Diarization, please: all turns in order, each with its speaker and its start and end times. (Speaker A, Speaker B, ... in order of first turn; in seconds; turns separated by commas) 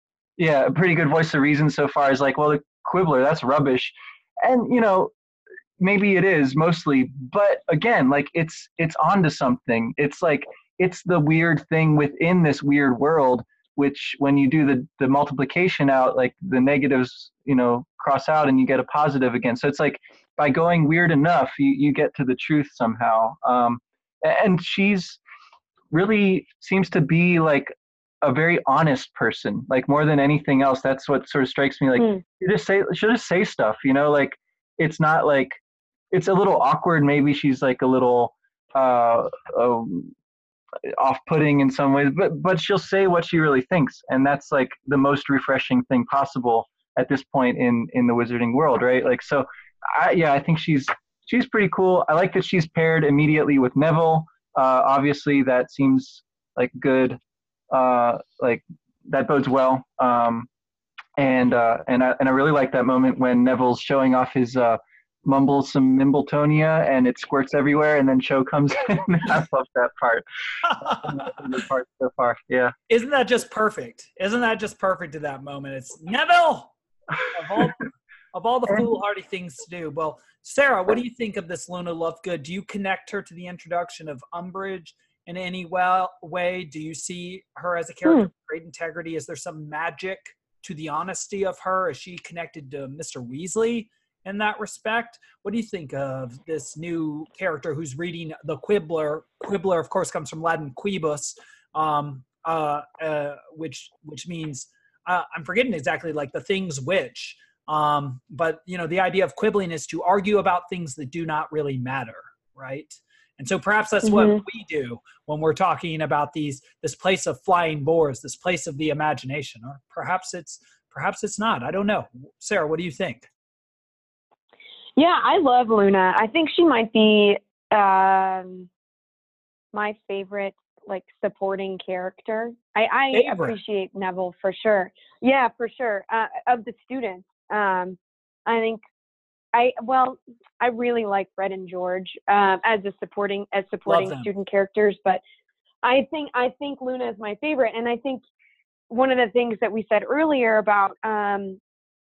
Speaker A: 0.4-5.1, Speaker A: 5.8-25.2, Speaker A: 25.9-35.6, Speaker A: 36.1-40.1, Speaker A: 41.0-57.2, Speaker A: 57.7-60.5, Speaker A: 61.2-72.7, Speaker B: 72.9-76.7, Speaker B: 77.3-123.3, Speaker C: 114.0-114.4, Speaker C: 125.0-128.7, Speaker C: 129.7-138.8, Speaker B: 133.1-133.5, Speaker C: 139.5-145.2, Speaker B: 143.9-144.3, Speaker C: 145.8-148.2, Speaker C: 148.9-151.6